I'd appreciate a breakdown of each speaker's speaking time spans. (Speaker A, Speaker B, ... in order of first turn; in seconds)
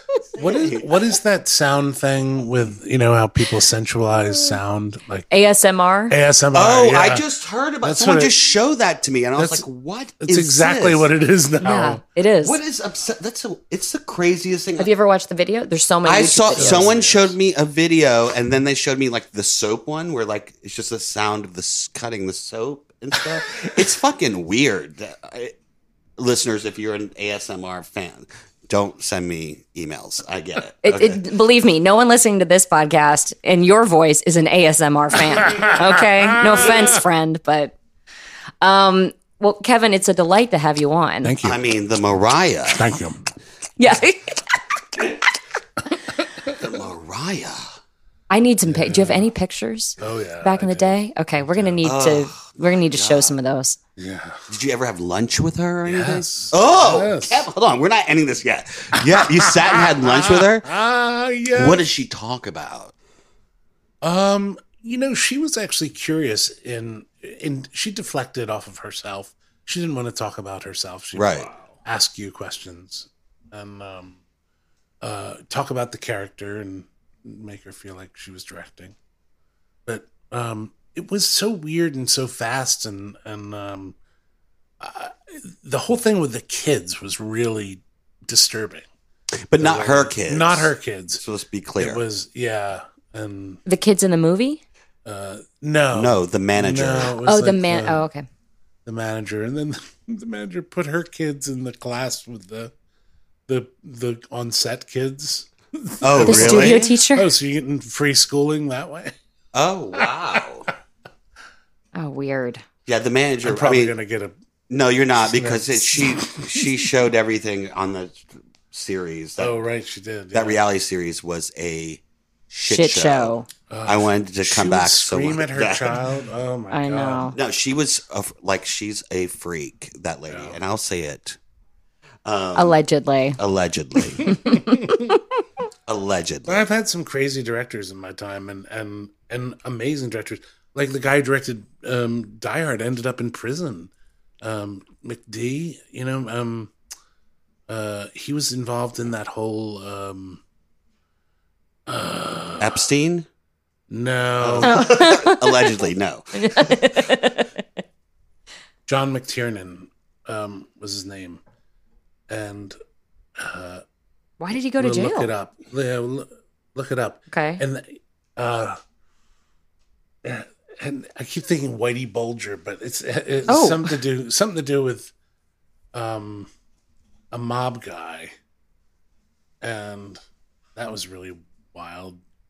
Speaker A: 0.3-1.0, 6.5-11.1, 12.4-14.9, 16.0-25.5, 26.2-31.2, 41.4-43.0, 46.5-47.7, 51.8-53.4, 54.5-60.7, 61.5-62.9, 71.1-71.5, 89.5-92.0, 95.9-97.1, 106.0-106.9, 109.5-110.7, 112.9-113.9, 114.7-119.5, 120.3-123.3, 123.8-126.0, 127.3-131.4, 132.2-132.8, 133.4-134.3, 135.9-136.7, 152.6-153.3, 154.4-156.9
Speaker B: 0.4-5.3, 6.1-7.2, 7.8-8.3, 9.3-9.6, 10.2-12.0, 16.5-17.3, 35.5-37.0, 41.2-41.6, 42.7-43.2, 48.6-49.3, 50.0-50.9, 54.0-54.5, 55.9-57.5, 58.9-61.8, 64.0-74.2, 75.0-78.9, 79.9-84.0, 84.8-88.8, 89.6-91.2, 91.8-93.6, 95.0-98.0, 98.8-102.7, 103.5-109.1, 113.4-114.3, 115.3-116.8, 119.4-120.6, 123.7-127.3, 130.3-130.6, 136.4-143.9, 144.4-146.7, 147.7-150.4, 151.9-152.8, 153.9-154.9, 158.9-161.4, 162.3-162.8, 163.4-163.8, 164.8-168.8, 170.2-175.1, 175.9-176.5, 177.3-178.3, 179.6-180.2, 180.8-182.2
Speaker C: 5.3-6.1, 11.6-12.6, 14.8-16.9, 30.8-37.7, 38.6-41.3, 43.8-44.6, 48.3-53.8, 93.7-94.6, 97.2-98.2, 106.2-107.3, 111.9-112.6, 122.6-123.5, 126.7-127.3, 132.5-133.4, 134.2-135.2, 154.6-155.8, 156.3-157.5, 164.4-165.3, 167.3-167.6, 173.5-173.9